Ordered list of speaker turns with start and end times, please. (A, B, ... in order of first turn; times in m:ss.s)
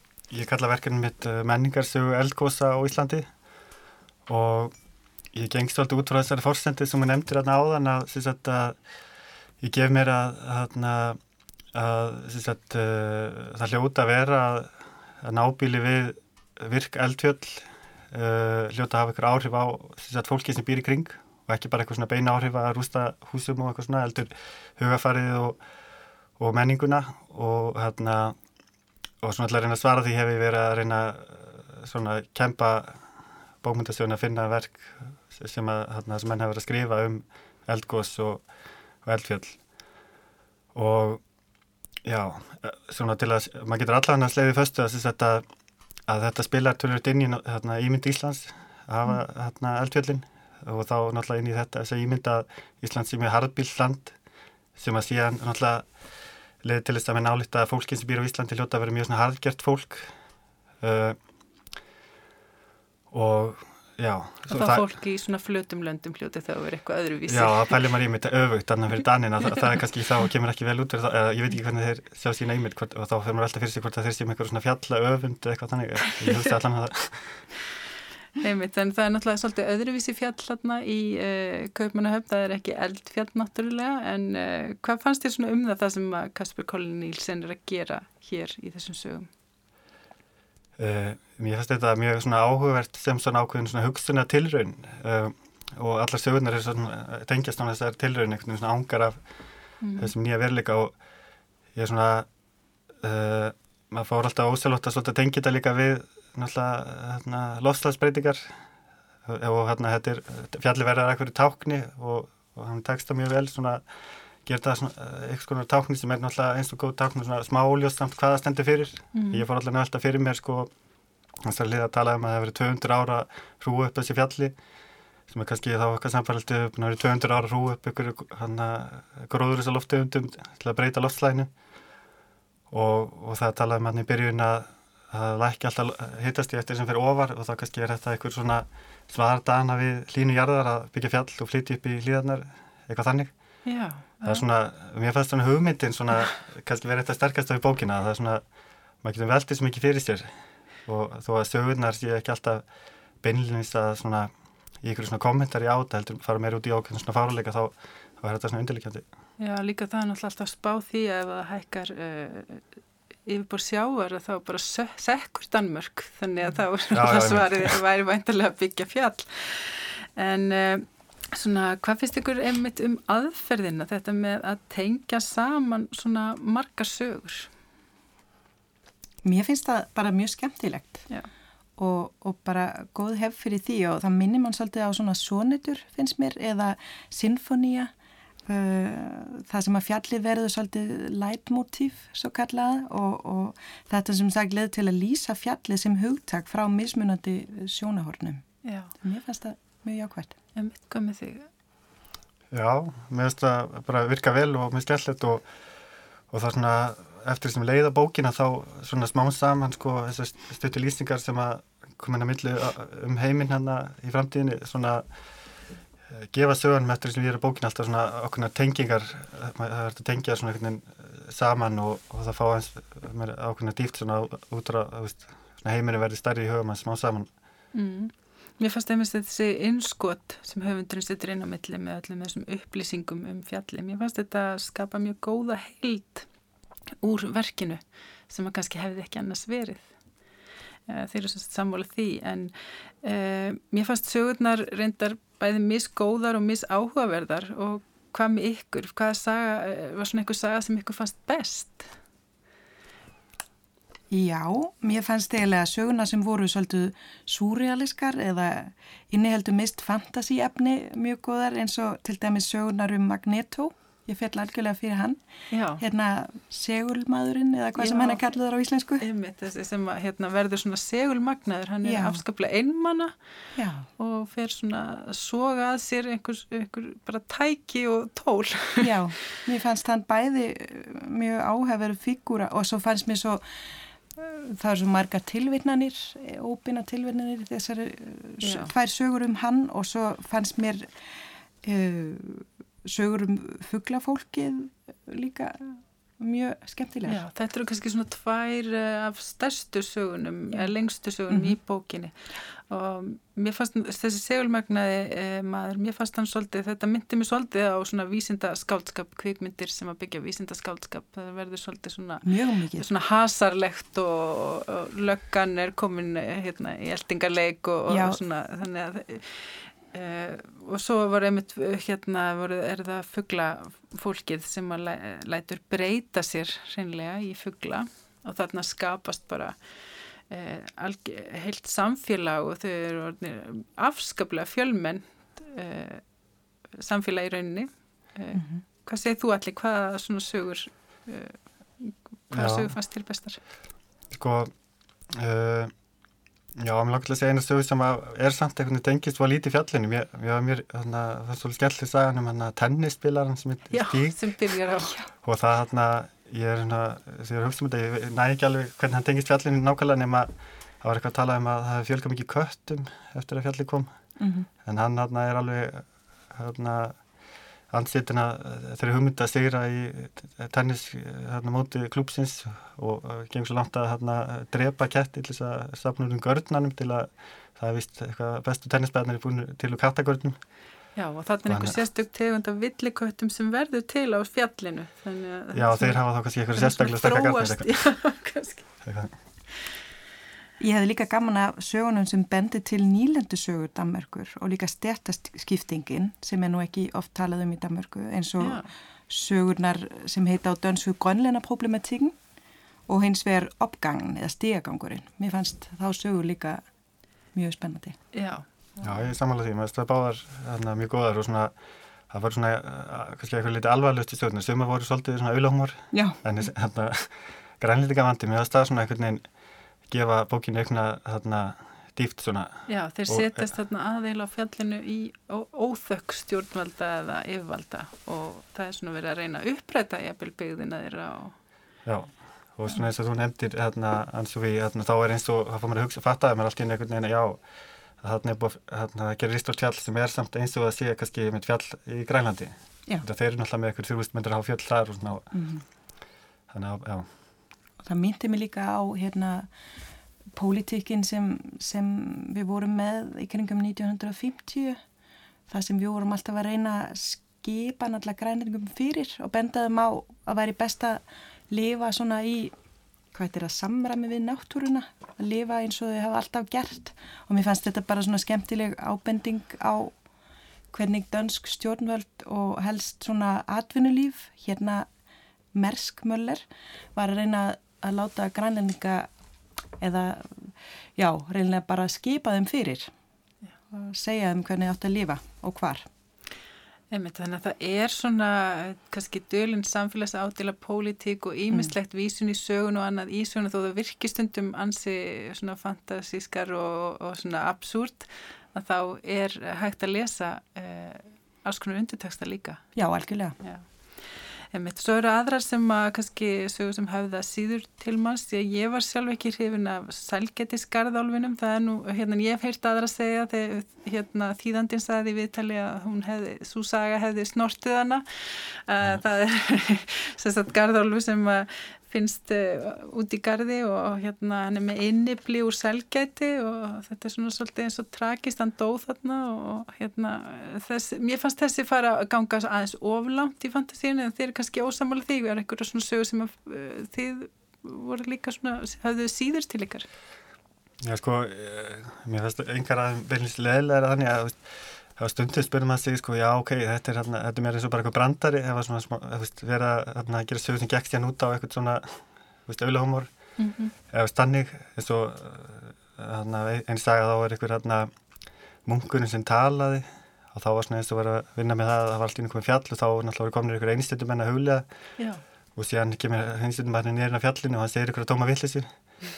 0:00.3-0:03.3 A
0:04.3-0:04.7 A
0:05.3-0:08.8 A
0:09.6-0:11.2 A
0:11.7-0:25.6 A
0:26.4-0:28.4 A
0:29.2-0:33.0 A
0:33.6-0:38.4 A
0:39.0-0:39.6 A
0:40.7-0:41.2 A
0:42.0-0:45.4 A
0:46.1-0:54.1 A
0:54.8-0:55.9 A
0:56.6-1:00.1 A
1:00.8-1:01.2 A
1:03.1-1:04.9 A
1:04.5-1:07.8 B
1:07.3-1:17.4 A
1:18.4-1:29.3 B
1:30.8-1:39.2 A
1:39.8-1:40.1 B
1:40.0-1:40.9 A
1:41.7-1:42.3 A
1:43.0-1:48.6 A
1:49.2-1:53.8 A
1:54.4-2:00.7 A
1:59.1-1:59.4 B
2:01.4-2:04.5 A
2:05.3-2:11.5 A
2:12.7-2:23.3 A
2:23.6-2:24.4 B
2:24.2-2:28.4 A
2:29.0-2:30.3 A
2:30.8-2:32.6 A
2:33.2-2:34.3 A
2:34.8-2:39.0 A
2:39.4-2:42.6 B
2:43.2-2:57.5 B
2:46.9-2:47.8 A
2:59.2-3:01.0 C
3:01.8-3:07.9 C
3:08.4-3:18.4 C
3:18.6-3:18.9 B
3:19.0-3:20.4 C
3:20.5-3:21.5 B
3:22.5-3:25.4 A
3:26.3-3:35.0 A
3:36.1-3:47.3 A
3:47.7-3:56.3 B
3:57.0-3:59.9 B
4:00.9-4:11.9 B
4:14.1-4:25.2 C
4:25.5-4:25.8 B
4:25.8-4:29.0 C
4:27.8-4:28.2 B
4:29.0-4:33.1 B
4:31.8-4:32.2 C
4:33.5-4:33.8 C
4:34.0-4:39.0 B
4:38.8-4:51.1 C
4:48.4-4:48.7 B
4:51.6-4:57.2 C
4:57.0-5:29.6 B
5:01.3-5:01.6 C
5:12.2-5:12.8 C
5:17.9-5:18.2 C
5:30.3-5:36.0 B
5:36.8-5:43.4 B
5:38.3-5:38.6 C
5:42.3-5:42.7 A
5:44.1-5:44.5 A
5:45.1-5:45.7 A
5:46.6-5:54.3 A
5:53.7-5:55.0 B
5:55.2-6:00.3 A
6:00.8-6:03.9 A
6:04.2-6:04.5 C
6:04.6-6:07.0 A
6:07.7-6:20.4 A
6:21.0-6:26.0 B
6:21.5-6:21.8 A
6:25.5-6:27.7 A
6:26.5-6:28.7 B
6:28.8-6:29.1 A
6:30.6-6:42.1 C
6:38.4-6:38.7 B
6:42.9-6:46.6 C
6:47.3-6:48.0 C
6:48.1-6:48.9 B
6:48.8-6:51.5 A
6:52.1-6:59.2 A
6:55.9-6:56.2 C
6:59.9-7:03.5 A
7:02.7-7:11.3 B
7:11.8-7:17.4 A
7:18.0-7:25.3 A
7:25.3-7:25.6 C
7:26.5-7:27.1 A
7:27.8-7:29.5 C
7:30.3-7:34.8 C
7:35.5-7:42.5 C
7:43.1-7:49.9 C
7:50.7-7:54.9 C
7:55.5-7:59.1 C
7:59.8-8:02.9 C
8:03.7-8:05.9 C
8:06.9-8:22.6 B
8:22.7-8:23.4 C
8:23.4-8:23.7 B
8:24.5-8:59.9 B
9:00.8-9:13.1 A
9:13.4-9:13.7 B
9:13.9-9:17.9 A
9:18.6-9:24.6 A
9:25.6-9:28.7 A